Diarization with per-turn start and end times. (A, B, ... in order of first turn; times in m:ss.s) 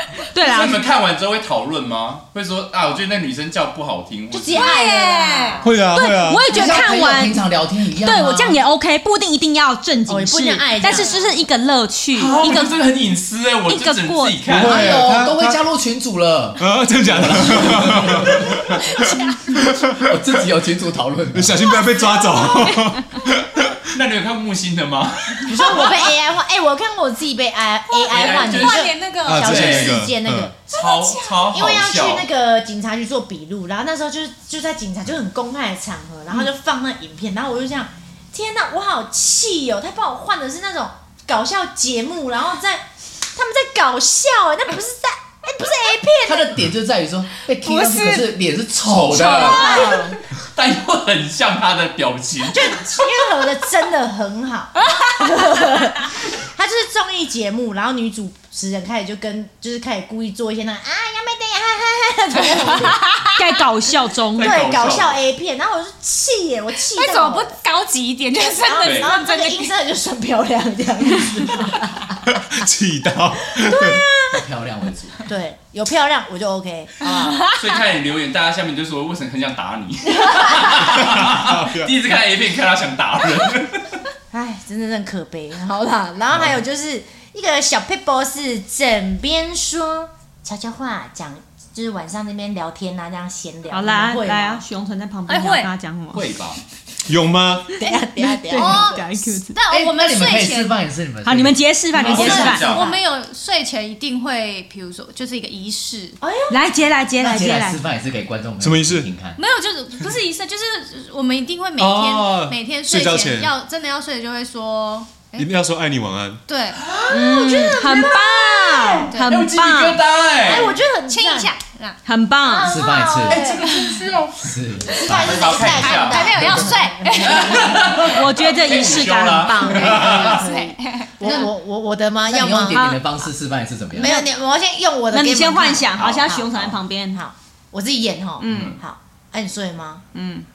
0:00.3-0:00.8 A
0:00.4-0:04.8 B
0:04.3-0:05.7 C
0:04.5-0:05.7 D
0:05.6-0:06.5 E
0:05.9-0:12.8 A
0:06.4-0:08.6 F
0:10.1-0:11.1 C
0:10.9-0:11.4 D
0:12.1-0:15.0 B
0:13.6-0:14.4 A
0:14.5-0:15.6 E
0:14.5-0:18.6 F
0:16.6-0:20.4 E
0:18.7-0:19.6 D
0:20.0-0:21.8 F
0:21.3-0:23.8 E
0:22.0-0:22.9 D
0:23.9-0:26.0 B
0:25.4-0:30.6 C
0:27.9-0:29.9 D
0:28.1-0:30.0 B
0:29.2-0:30.5 E
0:30.7-0:32.3 B
0:30.7-0:31.5 D
0:31.5-0:46.6 C
0:46.2-0:49.7 F
0:47.6-0:48.3 D
0:48.8-0:52.8 B
0:49.2-0:50.1 D
0:49.5-0:50.1 C
0:49.7-0:50.1 A
0:52.5-1:03.0 C
0:54.8-0:55.3 D
1:02.4-1:03.5 D
1:03.4-1:04.7 A
1:04.3-1:05.2 B
1:04.4-1:07.6 C
1:06.9-1:09.7 D
1:08.5-1:12.1 C
1:08.8-1:09.1 B
1:12.3-1:14.0 E
1:14.3-1:15.2 F
1:15.2-1:17.4 C
1:17.1-1:17.6 D
1:17.5-1:24.0 B
1:20.2-1:20.5 C
1:20.8-1:21.9 E
1:24.3-1:34.6 C
1:33.7-1:36.3 A
1:35.3-1:35.7 D
1:36.1-1:36.6 B
1:37.0-1:37.7 E
1:37.8-1:39.0 C
1:38.2-1:39.6 A
1:38.5-1:40.8 D
1:39.7-1:41.6 F
1:41.2-1:42.8 A
1:42.0-1:46.2 D
1:42.0-1:42.9 B
1:42.0-1:43.0 C
1:46.2-1:46.6 C
1:46.5-1:47.8 A
1:47.2-1:49.4 F
1:48.6-1:49.1 E
1:49.4-1:55.5 D
1:51.8-1:53.5 E
1:55.4-1:56.4 E
1:56.5-1:56.8 D
1:56.9-1:59.1 C
1:57.1-2:00.0 A
1:59.1-1:59.4 D
1:59.2-2:00.8 B
2:00.4-2:01.5 C
2:01.0-2:02.0 D
2:02.0-2:02.8 A
2:02.4-2:03.7 C
2:02.6-2:06.6 F
2:03.3-2:04.3 B
2:03.3-2:04.0 D
2:04.9-2:08.1 C
2:05.1-2:06.4 B
2:05.6-2:07.9 D
2:07.2-2:10.4 B
2:08.0-2:10.1 A
2:09.4-2:12.8 C
2:09.7-2:11.5 D
2:12.2-2:14.2 F
2:12.7-2:13.1 A
2:13.9-2:20.0 C
2:15.1-2:17.2 A
2:18.4-2:18.8 A
2:18.5-2:18.8 B
2:20.1-2:20.4 A